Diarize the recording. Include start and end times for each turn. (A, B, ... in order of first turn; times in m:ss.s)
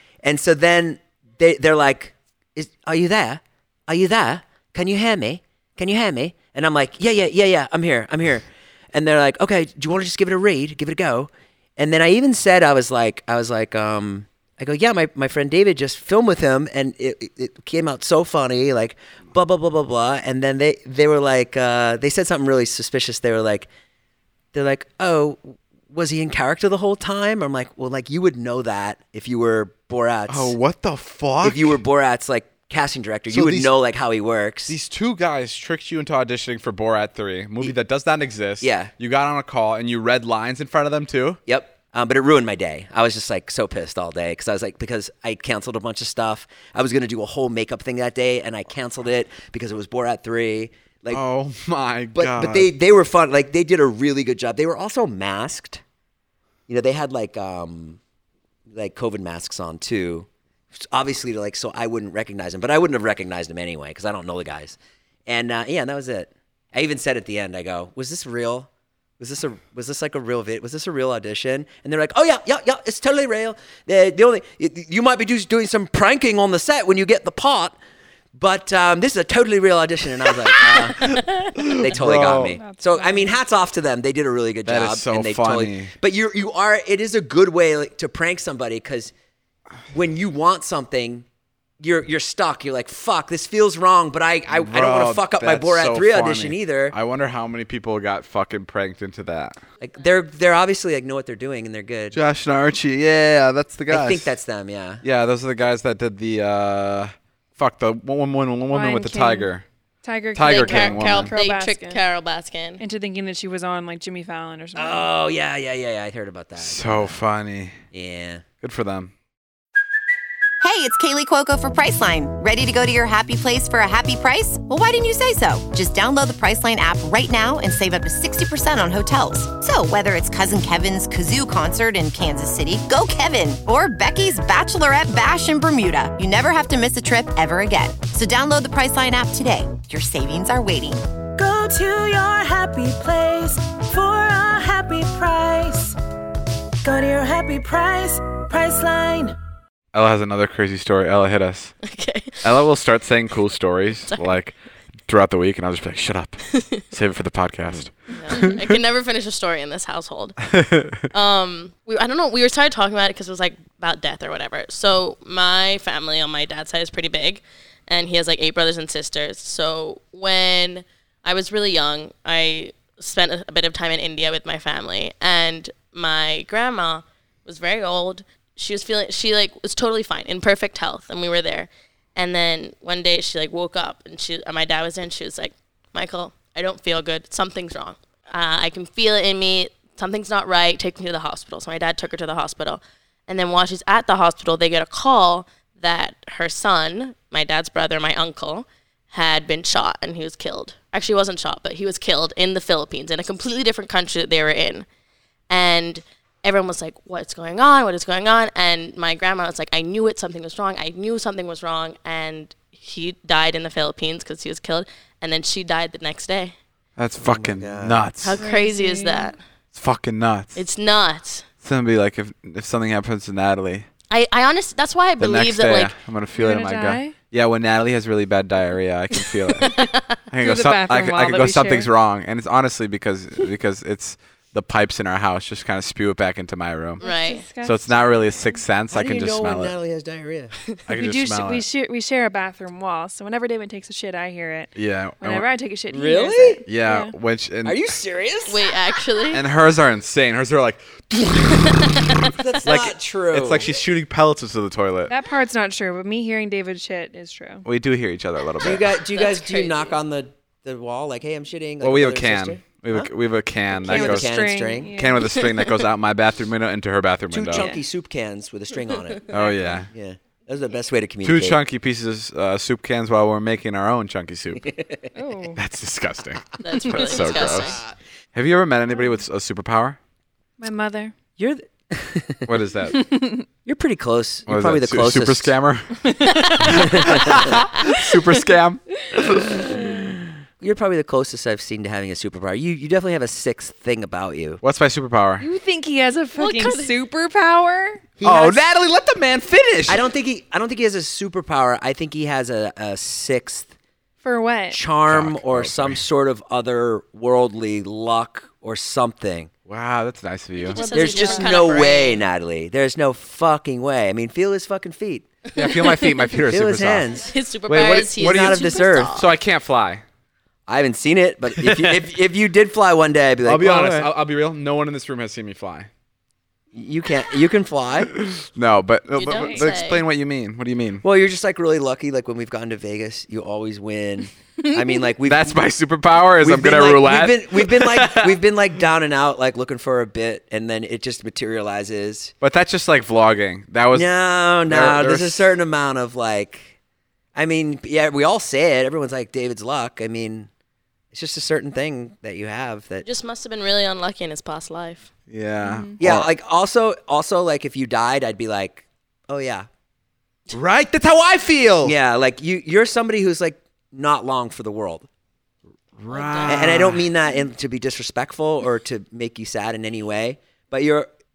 0:00.2-0:23.7 A
0:24.5-0:30.5 A
0:30.3-0:31.8 B
0:31.4-0:34.7 A
0:33.3-0:33.7 B
0:34.7-0:41.4 B
0:38.6-0:38.9 A
0:41.4-0:51.2 A
0:51.1-0:52.7 B
0:52.1-0:55.8 A
0:56.7-0:58.0 A
0:58.7-1:08.7 A
1:09.2-1:17.8 A
1:18.4-1:21.2 A
1:21.6-1:22.6 B
1:21.7-1:29.1 A
1:22.3-1:23.4 C
1:24.6-1:25.9 B
1:29.9-1:31.2 A
1:31.8-1:36.9 A
1:34.5-1:39.6 B
1:39.8-1:42.2 A
1:42.1-1:44.3 B
1:43.9-1:45.0 A
1:45.0-1:49.6 B
1:48.7-1:49.5 C
1:50.0-1:52.0 C
1:50.3-1:51.3 B
1:50.4-1:52.8 D
1:52.8-1:55.1 C
1:54.7-1:57.2 A
1:56.6-1:57.8 B
1:57.9-1:58.4 A
1:58.6-1:59.1 B
2:00.6-2:21.0 E
2:22.3-2:22.8 F
2:24.7-2:25.5 F
2:26.9-2:28.0 F
2:28.6-2:29.1 F
2:29.9-2:31.7 B
2:31.8-2:32.4 D
2:32.4-2:34.5 B
2:35.1-2:38.6 B
2:38.1-2:40.4 D
2:38.3-2:38.5 C
2:40.5-2:41.0 B
2:41.1-3:24.8 D
3:25.5-3:36.5 D
3:37.0-3:38.4 B
3:37.2-3:38.0 A
3:38.2-3:39.4 D
3:38.4-3:39.3 C
3:39.7-3:40.6 B
3:40.5-3:41.4 D
3:41.6-3:43.9 B
3:44.1-3:45.9 D
3:45.2-3:49.7 B
3:46.3-3:47.1 C
3:49.6-3:50.2 D
3:50.3-3:57.0 B
3:50.4-3:51.9 C
3:57.0-3:58.0 C
3:57.0-3:57.4 D
3:57.6-3:59.7 B
3:58.9-4:00.6 A
4:00.9-4:01.6 B
4:00.9-4:07.1 C
4:04.8-4:05.4 B
4:05.9-4:06.6 A
4:06.7-4:07.8 B
4:07.6-4:08.8 A
4:08.5-4:09.4 D
4:09.3-4:15.1 B
4:11.7-4:12.2 D
4:12.4-4:13.7 A
4:15.1-4:17.6 C
4:17.6-4:18.9 B
4:18.6-4:23.1 A
4:19.2-4:19.7 D
4:21.8-4:24.3 B
4:23.8-4:25.4 C
4:23.8-4:24.9 A
4:24.9-4:27.7 B
4:27.3-4:29.3 A
4:27.5-4:27.8 C
4:29.3-4:29.9 B
4:29.3-4:29.7 C
4:29.9-4:31.6 A
4:31.2-4:34.7 B
4:34.7-4:35.0 A
4:35.1-4:35.6 C
4:35.6-4:37.8 B
4:36.6-4:37.8 D
4:37.4-4:37.8 A
4:38.3-4:40.0 B
4:40.6-4:41.1 C
4:41.4-4:42.5 A
4:42.5-4:43.0 B
4:42.9-4:43.4 C
4:43.6-4:45.5 A
4:44.5-4:49.8 B
4:46.1-4:46.8 C
4:46.6-4:47.6 A
4:50.6-4:54.6 A
4:54.6-4:55.4 B
4:55.4-4:58.0 C
4:56.4-4:56.9 D
4:58.2-4:58.6 A
4:58.2-5:00.0 B
4:59.9-5:03.7 A
5:04.2-5:04.8 C
5:04.7-5:09.5 A
5:05.1-5:06.0 B
5:09.7-5:10.9 B
5:10.6-5:12.2 D
5:10.7-5:11.9 C
5:10.9-5:15.3 A
5:15.5-5:17.1 B
5:16.5-5:17.3 A
5:17.2-5:19.2 D
5:17.7-5:20.0 B
5:18.1-5:19.2 A
5:20.7-5:24.1 A
5:21.6-5:22.0 B
5:23.4-5:25.9 B
5:26.7-5:28.1 A
5:28.1-5:31.0 B
5:29.1-5:30.0 D
5:29.3-5:29.6 C
5:31.0-5:35.6 A
5:35.2-5:38.4 B
5:36.4-5:42.3 A
5:42.4-5:45.5 B
5:43.9-5:46.7 A
5:47.3-5:50.5 A
5:51.1-5:53.0 A
5:53.0-5:55.1 D
5:55.3-5:56.3 B
5:55.6-5:55.9 C
5:56.0-5:59.7 A
6:00.5-6:01.9 B
6:01.8-6:05.0 A
6:06.0-6:07.0 B
6:06.1-6:06.5 D
6:06.4-6:11.1 A